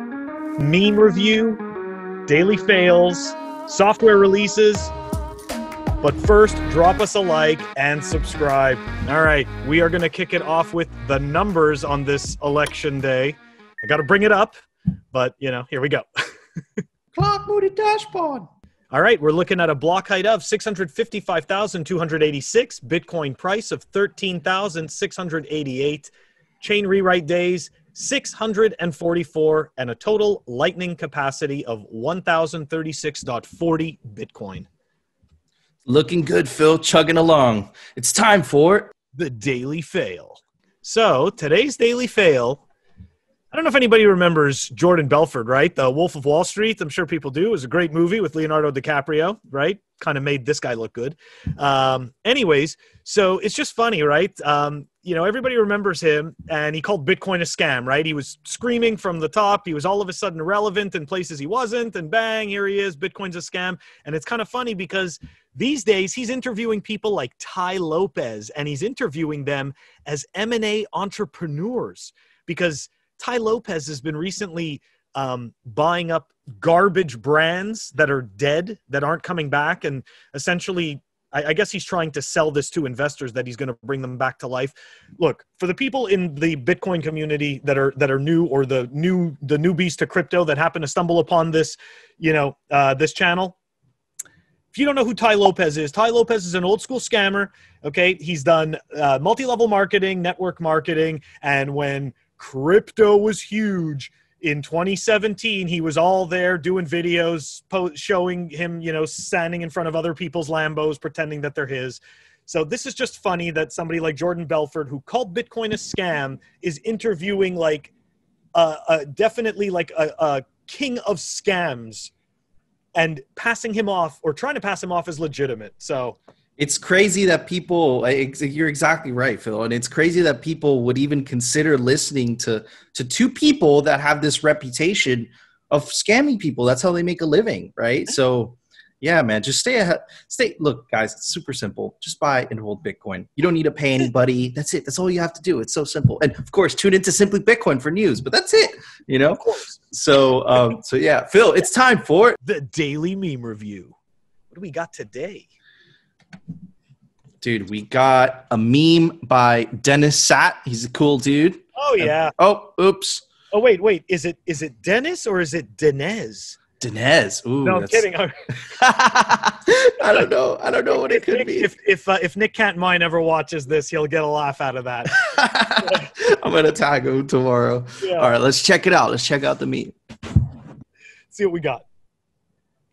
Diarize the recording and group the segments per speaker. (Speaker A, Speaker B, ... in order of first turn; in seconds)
Speaker A: 0.6-1.6, 2.3-4.9, 6.0-14.5, 15.1-16.1, 18.9-34.7, 39.1-42.6, 43.5-93.6, 94.7-117.9, 118.5-122.1, 123.0-126.2, 149.3-149.8, 152.4-154.0, 154.5-155.5, 161.8-162.3, 163.5-166.6, 167.6-168.3, 170.9-175.2, 178.0-178.3, 181.3-181.8
Speaker B: 17.1-18.5, 35.9-38.9, 126.6-152.4, 157.4-163.3, 166.8-168.1, 168.7-171.7, 175.1-180.0